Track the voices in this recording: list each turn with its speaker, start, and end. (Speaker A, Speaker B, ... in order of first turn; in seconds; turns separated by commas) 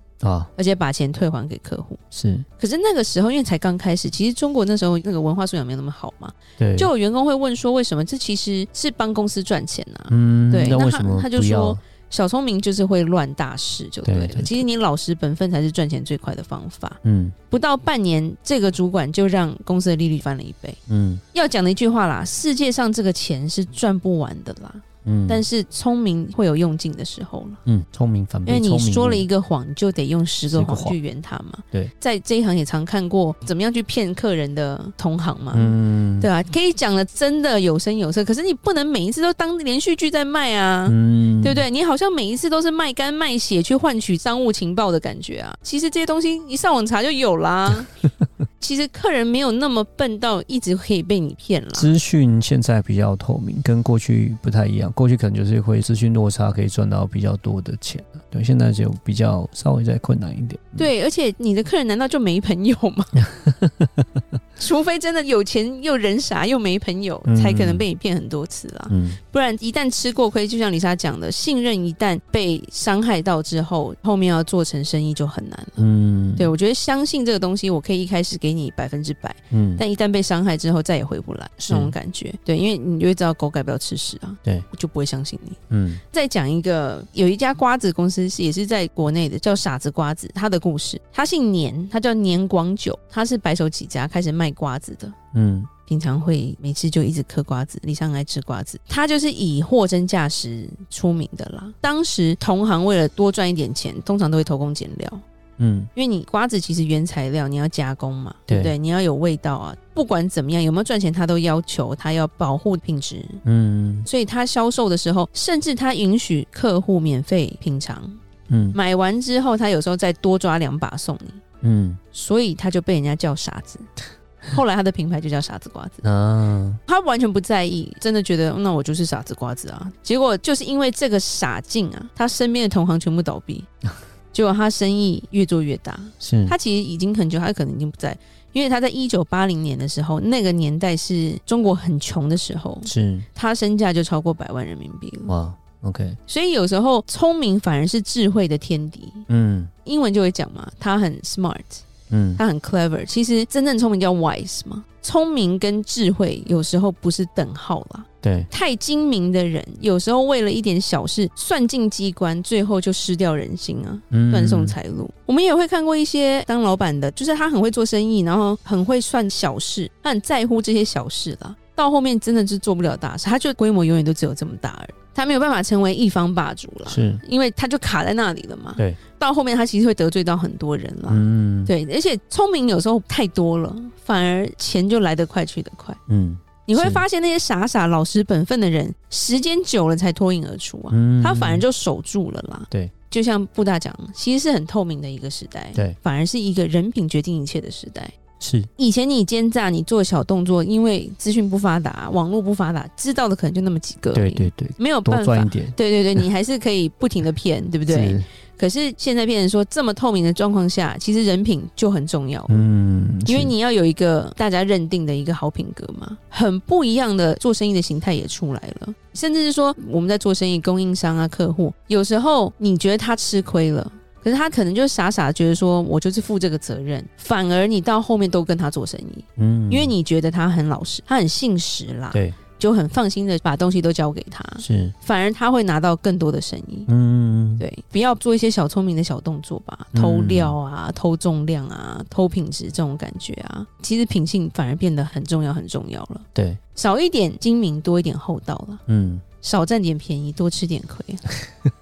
Speaker A: 0.2-0.5, Speaker B: 0.6-2.0, Speaker A: 2.1-2.5, Speaker B: 2.5-20.8, Speaker A: 6.6-6.9, Speaker A: 10.1-11.8, Speaker A: 14.0-14.6, Speaker A: 17.0-17.4, Speaker A: 20.9-21.2, Speaker B: 21.3-27.6, Speaker A: 25.0-25.4, Speaker A: 27.6-29.3, Speaker B: 28.4-47.9, Speaker A: 30.5-31.0, Speaker A: 35.5-36.3, Speaker A: 40.9-41.6, Speaker B: 48.6-52.0, Speaker A: 51.8-60.9, Speaker B: 60.8-63.3, Speaker B: 64.6-95.2, Speaker A: 67.2-67.8, Speaker A: 68.9-69.2, Speaker A: 75.8-76.5, Speaker A: 79.5-79.8, Speaker A: 81.6-81.9, Speaker A: 85.7-86.0, Speaker A: 95.3-95.7, Speaker B: 95.8-105.2, Speaker A: 105.6-105.9, Speaker B: 105.9-113.4, Speaker A: 108.5-108.7, Speaker A: 113.4-114.0, Speaker B: 114.0-118.2, Speaker A: 118.5-118.8, Speaker B: 118.7-121.4, Speaker A: 121.6-122.0, Speaker B: 122.1-123.9, Speaker B: 124.5-126.1, Speaker A: 126.0-126.8, Speaker B: 126.9-133.7, Speaker B: 134.3-145.3, Speaker A: 136.2-136.6, Speaker A: 142.8-143.3, Speaker A: 145.3-146.2, Speaker B: 146.2-186.0, Speaker A: 149.3-149.7, Speaker A: 152.1-152.4, Speaker A: 158.2-158.5, Speaker A: 164.1-164.8, Speaker A: 176.9-177.2, Speaker A: 181.1-181.7, Speaker A: 186.1-187.0, Speaker B: 186.6-198.2, Speaker A: 190.9-191.6, Speaker A: 198.4-198.7, Speaker B: 198.8-212.6, Speaker A: 204.1-205.7, Speaker A: 207.9-208.2, Speaker A: 212.5-213.5, Speaker B: 213.2-236.9, Speaker A: 229.4-229.9, Speaker A: 232.1-232.4, Speaker A: 234.6-234.9, Speaker A: 236.9-237.6, Speaker B: 237.6-251.2, Speaker A: 239.9-240.6, Speaker A: 246.3-246.6, Speaker A: 248.9-249.2